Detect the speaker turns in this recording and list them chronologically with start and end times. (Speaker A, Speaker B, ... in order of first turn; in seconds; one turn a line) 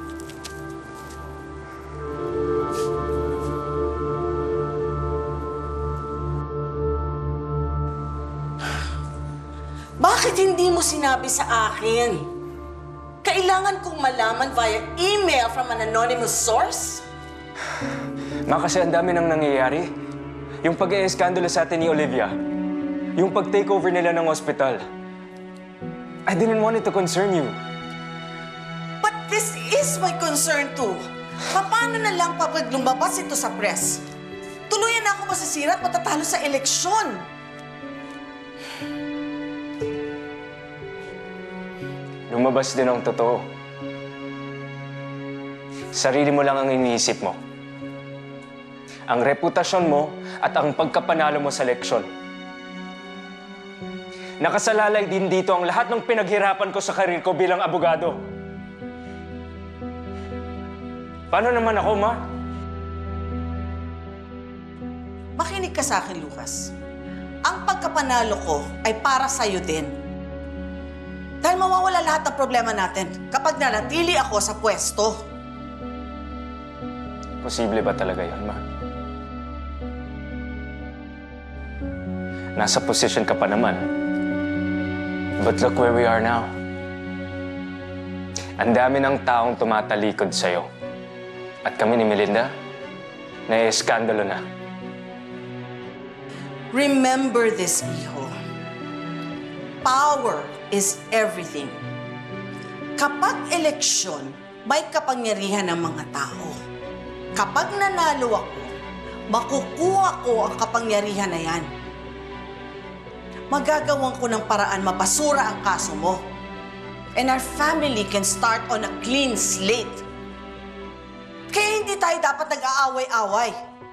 Speaker A: 10.0-12.3
Speaker A: 13.2-17.0
Speaker B: 18.5-19.9
Speaker B: 20.6-22.4
Speaker B: 23.2-24.8
Speaker B: 26.3-27.6
Speaker A: 29.0-34.0
Speaker A: 34.7-37.2
Speaker B: 42.3-43.4
Speaker B: 45.9-47.4
Speaker B: 49.1-52.1
Speaker B: 54.4-58.2
Speaker B: 61.3-62.2
Speaker A: 65.4-66.7
Speaker A: 67.5-70.0
Speaker A: 71.4-75.2
Speaker B: 77.4-78.6
Speaker B: 82.6-83.9
Speaker B: 85.4-86.5
Speaker B: 88.6-90.7
Speaker B: 91.7-92.5
Speaker B: 93.5-94.4
Speaker A: 96.7-98.3
Speaker A: 99.8-101.8
Speaker A: 103.0-106.6
Speaker A: 107.4-108.7
Speaker A: 109.3-111.7
Speaker A: 113.5-116.2
Speaker A: 117.2-120.0
Speaker A: 121.5-123.5